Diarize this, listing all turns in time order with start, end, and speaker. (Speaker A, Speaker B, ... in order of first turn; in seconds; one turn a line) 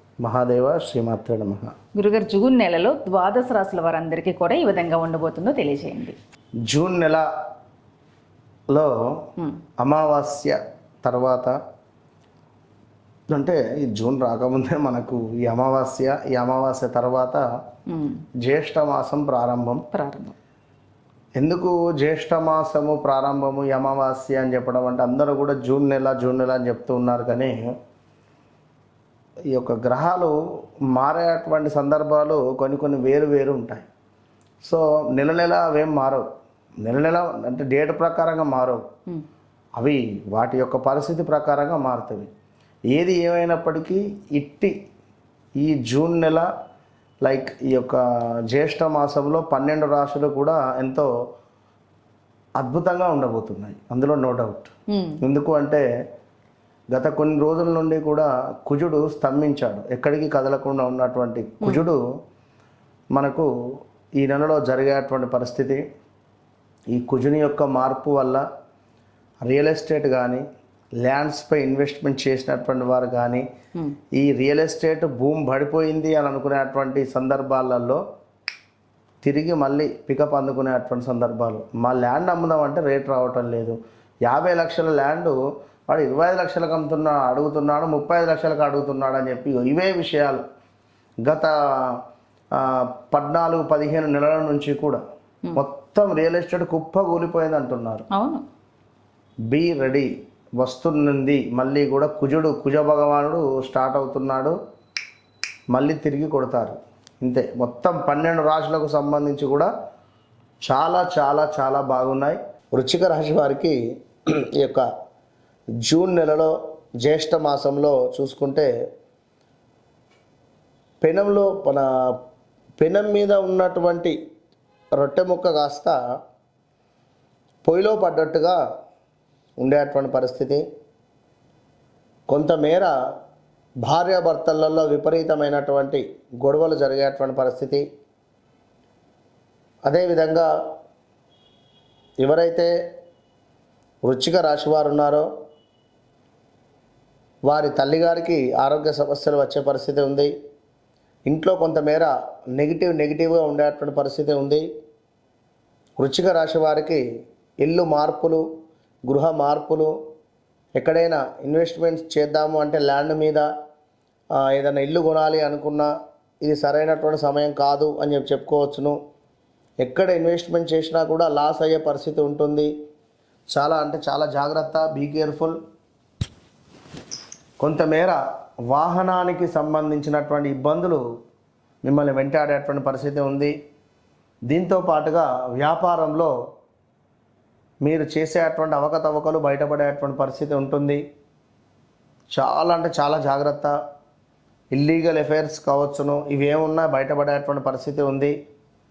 Speaker A: 0.2-1.7
Speaker B: 1.9-6.2
Speaker A: 6.7-7.3
Speaker A: 8.7-9.2
Speaker A: 9.8-11.6
Speaker A: 13.3-17.4
Speaker B: 17.9-18.2
Speaker A: 18.4-19.8
Speaker B: 19.9-20.3
Speaker A: 21.4-27.7
Speaker A: 29.5-30.3
Speaker A: 30.9-33.9
Speaker A: 34.6-36.2
Speaker A: 36.8-38.8
Speaker A: 39.8-42.3
Speaker A: 42.9-44.7
Speaker A: 45.6-46.5
Speaker A: 47.2-51.1
Speaker A: 52.6-55.8
Speaker B: 54.9-55.2
Speaker A: 56.9-62.0
Speaker A: 63.1-63.5
Speaker A: 64.2-65.8
Speaker A: 66.9-68.4
Speaker A: 69.5-70.4
Speaker A: 71.0-73.5
Speaker A: 74.1-78.0
Speaker A: 79.2-85.4
Speaker A: 85.9-90.4
Speaker A: 91.2-92.0
Speaker A: 92.5-95.0
Speaker A: 95.6-98.0
Speaker B: 98.1-98.4
Speaker A: 99.5-104.5
Speaker A: 105.7-109.7
Speaker A: 110.6-113.8
Speaker A: 114.6-114.8
Speaker A: 115.8-118.7
Speaker A: 121.0-121.8
Speaker A: 122.8-124.2
Speaker A: 125.0-126.0
Speaker A: 127.6-128.6
Speaker A: 129.6-130.6
Speaker A: 132.3-132.9
Speaker A: 133.8-137.8
Speaker A: 139.9-140.5
Speaker A: 142.2-142.7
Speaker A: 144.1-145.3
Speaker A: 147.5-150.3
Speaker A: 151.3-154.7
Speaker A: 156.0-157.0
Speaker A: 157.6-158.4
Speaker A: 159.1-159.9
Speaker A: 160.8-163.5
Speaker A: 164.4-165.9
Speaker A: 166.4-169.0
Speaker A: 169.8-172.7
Speaker A: 173.5-175.6
Speaker A: 177.6-178.2
Speaker A: 178.7-181.0
Speaker A: 181.8-183.5
Speaker A: 184.5-186.3
Speaker A: 187.8-191.0
Speaker A: 192.3-193.7
Speaker A: 194.7-198.3